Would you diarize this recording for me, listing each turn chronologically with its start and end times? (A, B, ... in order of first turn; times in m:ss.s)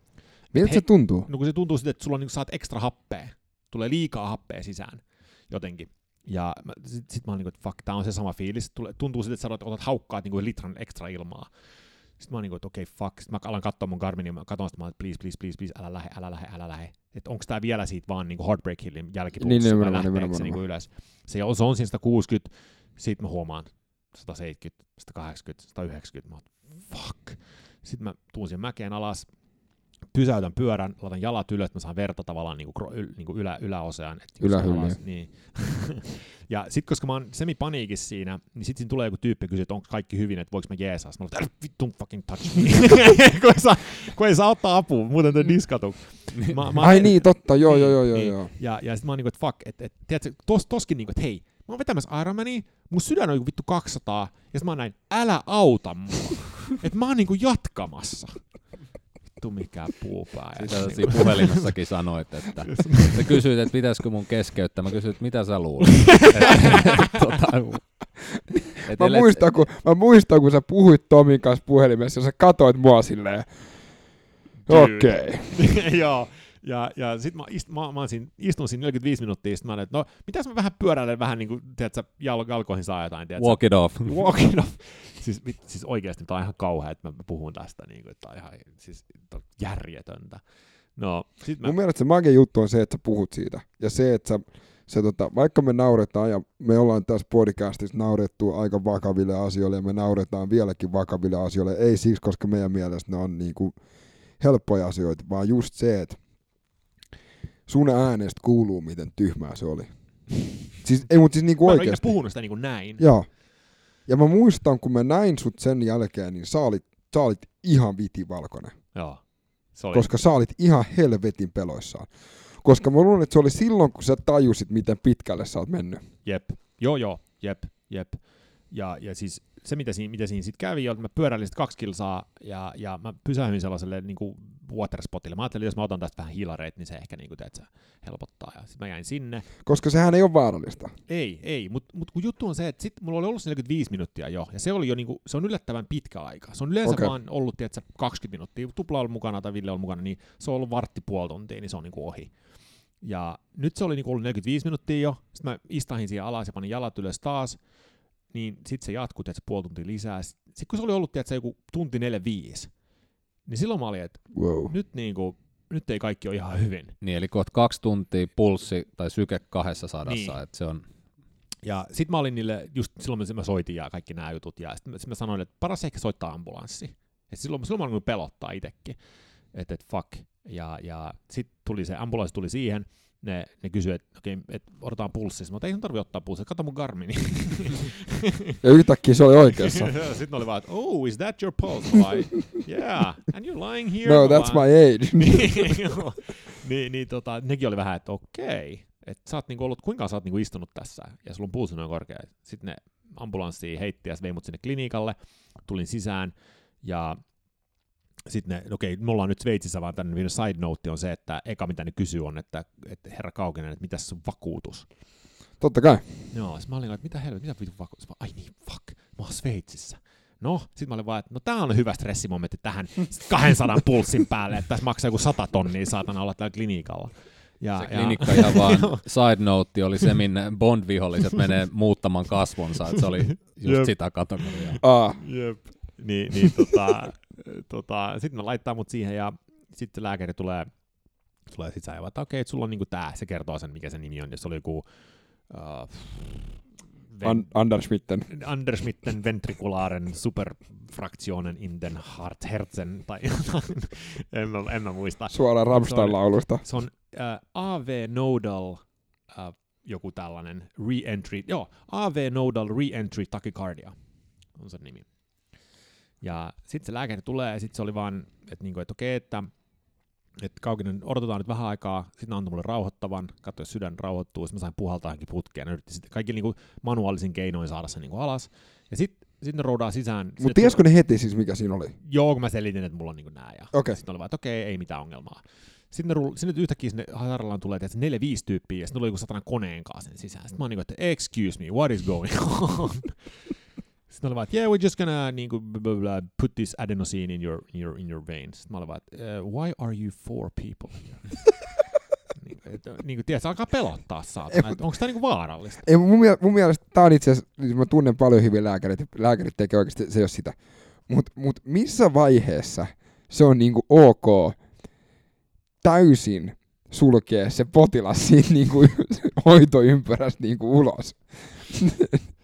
0:00.4-0:29.3 A
0:00.5-0:01.3 B
0:19.4-0:20.6 B
0:30.0-0:58.7 A
0:34.4-0:35.0 B
0:46.8-0:48.5 B
0:59.4-1:01.8 A
1:00.6-1:09.4 C
1:02.7-1:03.4 A
1:06.5-1:07.0 A
1:08.8-1:15.7 B
1:14.6-1:31.8 A
1:23.4-1:24.3 C
1:31.6-1:46.3 B
1:47.7-1:52.3 B
1:51.6-1:53.1 A
1:53.0-1:59.2 B
1:58.9-2:00.1 A
1:59.9-2:06.0 B
2:06.2-2:19.5 A
2:19.6-2:20.9 B
2:21.1-2:37.6 A
2:26.8-2:27.1 B
2:38.3-2:42.7 A
2:43.4-2:46.9 A
2:44.3-2:44.7 B
2:47.0-2:50.8 C
2:50.0-2:50.4 A
2:51.6-3:08.2 A
3:08.6-3:09.9 B
3:09.6-3:27.2 A
3:14.0-3:15.9 B
3:28.2-3:34.9 A
3:35.6-3:36.2 B
3:36.3-3:49.0 A
3:47.8-3:54.8 C
3:53.3-4:00.7 A
3:54.8-3:55.7 B
4:01.4-4:07.5 A
4:07.2-4:08.3 B
4:08.3-4:23.9 A
4:15.3-4:16.6 B
4:24.5-4:25.1 A
4:26.2-4:29.5 A
4:30.4-4:40.8 A
4:40.4-4:41.9 B
4:42.0-4:53.5 A
4:43.7-4:44.0 B
4:54.1-5:01.5 A
5:02.4-5:05.8 A
5:05.8-5:14.6 B
5:15.8-5:22.2 B